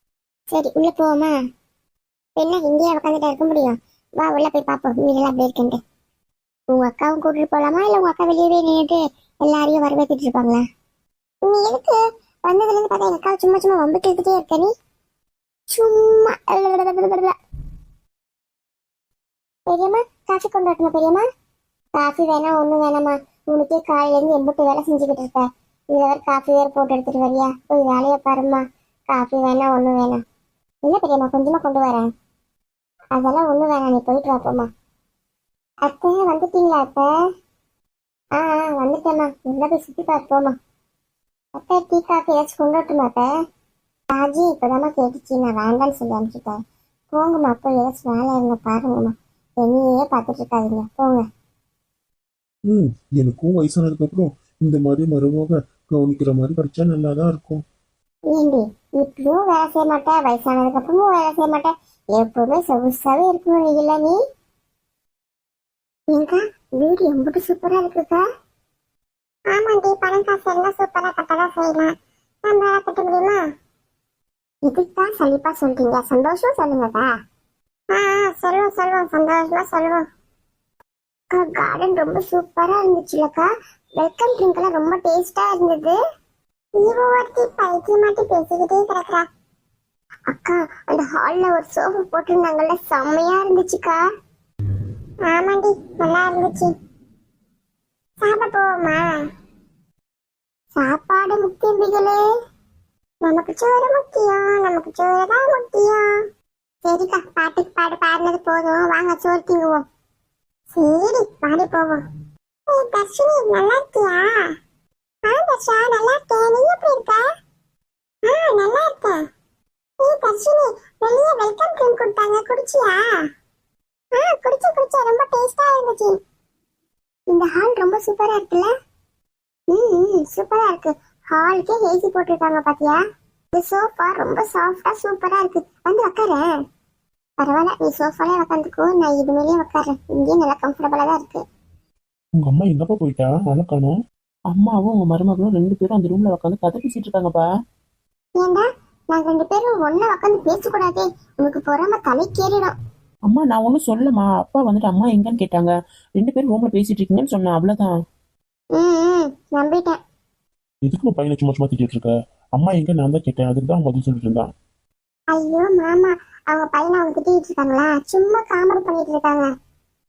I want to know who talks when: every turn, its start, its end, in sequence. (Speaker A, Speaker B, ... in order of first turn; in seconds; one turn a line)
Speaker A: 0.5-1.3
Speaker A: 2.4-5.8
Speaker A: 6.7-10.6
Speaker A: 11.5-14.7
Speaker A: 15.7-17.3
Speaker A: 19.7-21.2
Speaker A: 22.0-30.2
Speaker A: 30.9-32.1
Speaker A: 33.2-34.7
Speaker A: 35.9-37.1
Speaker A: 38.4-40.5
Speaker A: 41.6-43.3
Speaker A: 44.1-46.6
Speaker A: 47.1-51.3
Speaker B: 52.7-57.6
Speaker A: 58.3-64.2
Speaker A: 66.1-68.2
Speaker A: 69.5-71.9
Speaker A: 72.5-73.4
Speaker A: 74.7-77.1
Speaker A: 77.9-80.0
Speaker A: 81.3-86.0
Speaker A: 86.8-89.3
Speaker A: 90.3-94.0
Speaker A: 95.2-96.7
Speaker A: 98.2-99.2
Speaker A: 100.8-102.2
Speaker A: 103.2-106.1
Speaker A: 106.8-109.8
Speaker A: 110.7-112.0
Speaker A: 112.7-114.5
Speaker A: 115.3-117.2
Speaker A: 118.3-119.2
Speaker A: 120.0-123.2
Speaker A: 124.2-126.2
Speaker A: 127.3-128.7
Speaker A: 129.7-133.0
Speaker A: 133.5-136.5
Speaker A: 137.4-141.4
Speaker B: 142.4-144.0
Speaker C: 144.5-147.4
Speaker A: 148.4-152.7
Speaker C: 153.3-157.9
Speaker A: 158.8-160.0
Speaker B: 160.8-164.5
Speaker A: 165.3-169.5